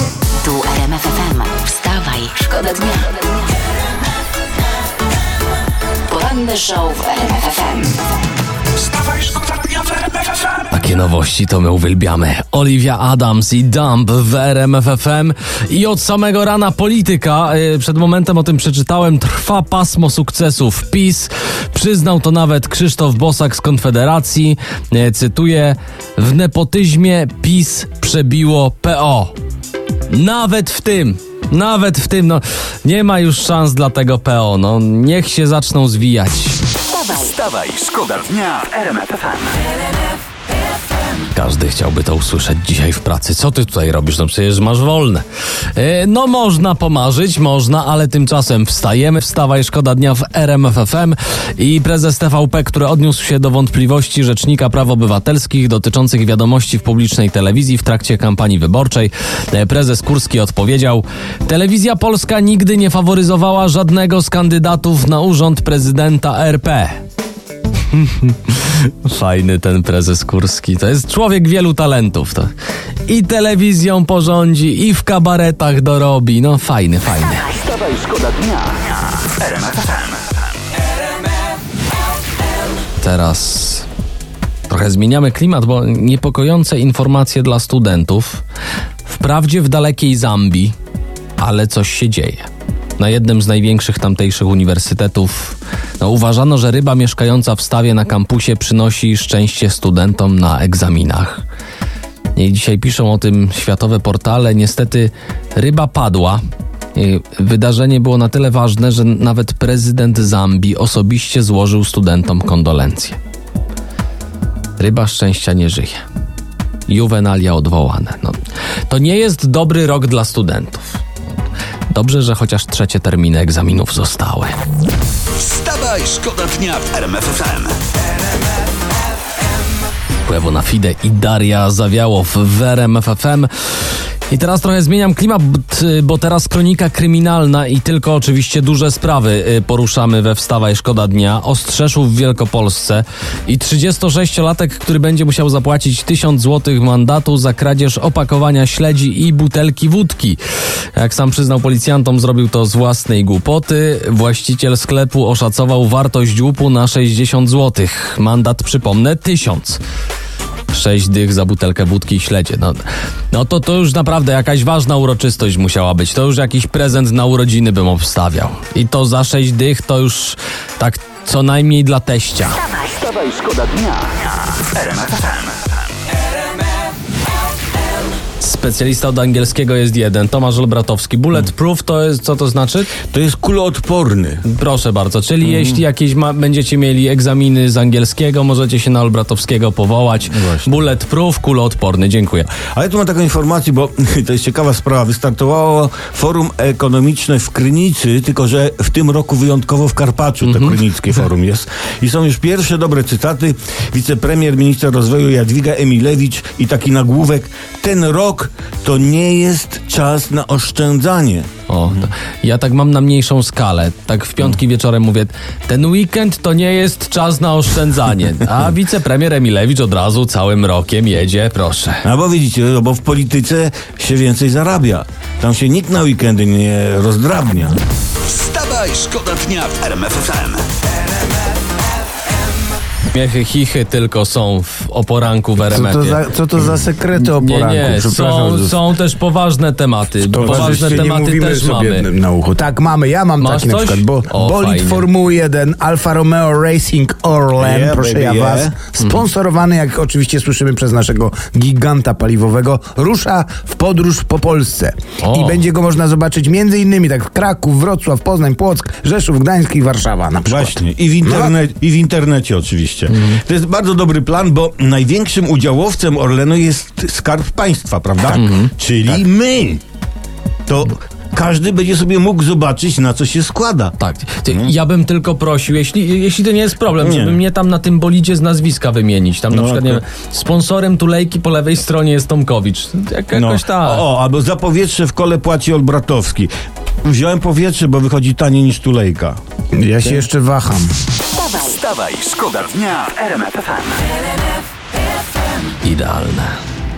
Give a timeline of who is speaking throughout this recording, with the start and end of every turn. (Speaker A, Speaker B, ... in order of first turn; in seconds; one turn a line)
Speaker A: 0.4-3.3
Speaker A: 6.1-8.0
Speaker B: 10.7-29.3
Speaker B: 30.1-36.6
Speaker A: 36.9-37.9
Speaker C: 37.5-39.5
Speaker B: 41.3-67.0
Speaker B: 67.9-72.5
Speaker B: 73.1-77.6
Speaker C: 77.7-78.8
Speaker C: 79.4-80.1
Speaker B: 83.0-83.9
Speaker B: 84.7-88.4
Speaker B: 89.1-90.8
Speaker B: 91.4-101.4
Speaker B: 102.3-106.4
Speaker B: 106.9-113.2
Speaker B: 114.8-116.0
Speaker B: 116.9-121.0
Speaker B: 121.9-124.6
Speaker C: 125.4-126.0
Speaker C: 127.0-127.3
Speaker B: 130.3-133.5
Speaker B: 134.3-150.4
Speaker B: 150.9-159.8
Speaker B: 160.7-172.7
Speaker A: 172.7-173.4
Speaker C: 173.5-175.6
Speaker B: 178.4-183.0
Speaker D: 183.1-184.4
Speaker B: 184.4-192.5
Speaker D: 185.4-185.8
Speaker D: 190.4-190.7
Speaker D: 192.7-212.1
Speaker B: 200.4-200.8
Speaker B: 211.7-222.0
Speaker D: 222.0-228.4
Speaker C: 228.3-230.6
Speaker B: 233.1-236.2
Speaker E: 235.7-238.8
Speaker B: 237.2-242.1
Speaker E: 240.3-261.6
Speaker D: 240.4-241.1
Speaker B: 243.4-245.1
Speaker D: 247.6-248.8
Speaker B: 255.2-255.6
Speaker D: 260.5-269.8
Speaker B: 263.1-263.4
Speaker B: 268.3-268.7
Speaker D: 270.7-273.9
Speaker B: 274.0-284.0
Speaker D: 274.5-274.7
Speaker D: 277.0-277.4
Speaker D: 279.5-280.0
Speaker D: 283.3-286.5
Speaker D: 287.0-289.4
Speaker E: 289.7-290.9
Speaker A: 291.3-291.8
Speaker C: 291.8-294.0
Speaker B: 295.8-296.6